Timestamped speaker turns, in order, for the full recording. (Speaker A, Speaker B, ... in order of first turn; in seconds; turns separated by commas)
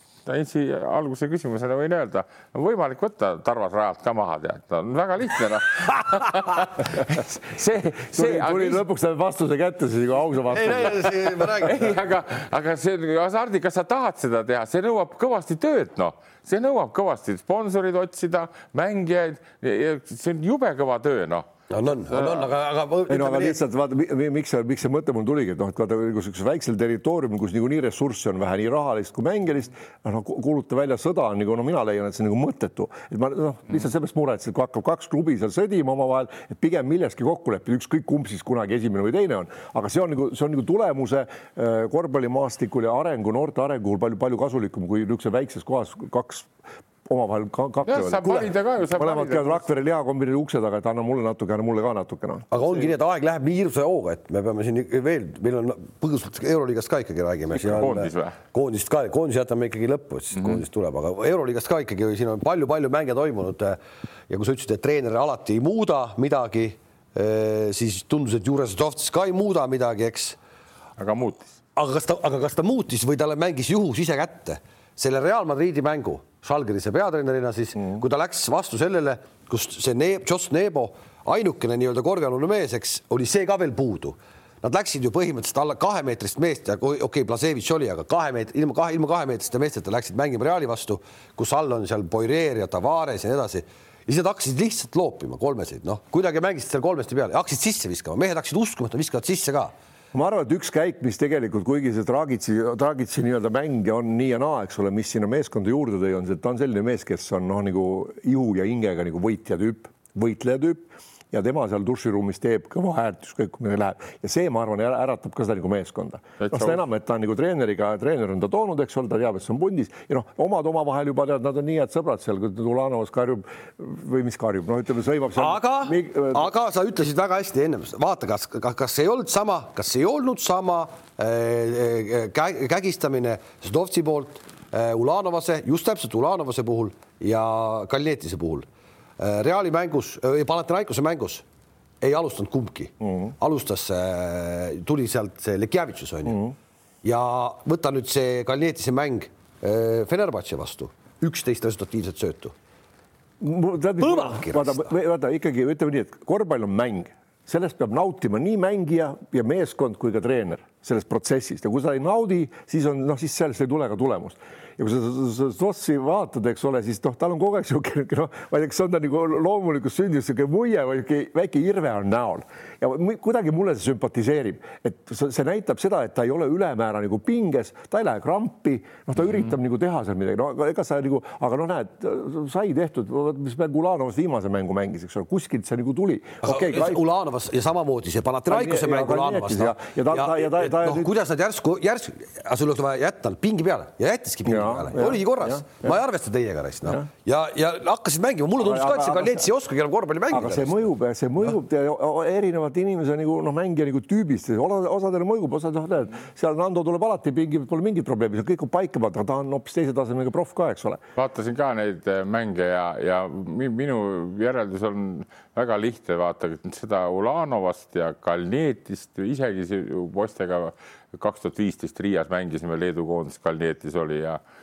Speaker A: 0.3-8.8, Speaker B: 5.9-6.5, Speaker C: 8.1-11.3, Speaker B: 10.5-12.0, Speaker A: 11.5-21.4, Speaker B: 21.7-23.6, Speaker A: 22.1-22.5, Speaker C: 23.1-46.5, Speaker C: 47.1-52.9, Speaker A: 47.9-49.6, Speaker B: 52.5-63.8, Speaker A: 57.6-58.4, Speaker B: 64.3-70.4, Speaker A: 71.0-71.5, Speaker B: 71.8-99.7, Speaker C: 100.1-126.5, Speaker A: 116.4-116.8, Speaker B: 125.4-138.7, Speaker B: 139.2-141.4, Speaker B: 142.0-146.4, Speaker C: 143.0-143.3, Speaker C: 146.3-146.6, Speaker B: 147.0-152.5, Speaker C: 153.4-187.0, Speaker B: 154.0-154.9, Speaker B: 186.4-200.9, Speaker C: 188.5-191.1, Speaker C: 194.4-195.9, Speaker C: 198.6-199.5, Speaker C: 200.3-211.0, Speaker A: 211.2-224.4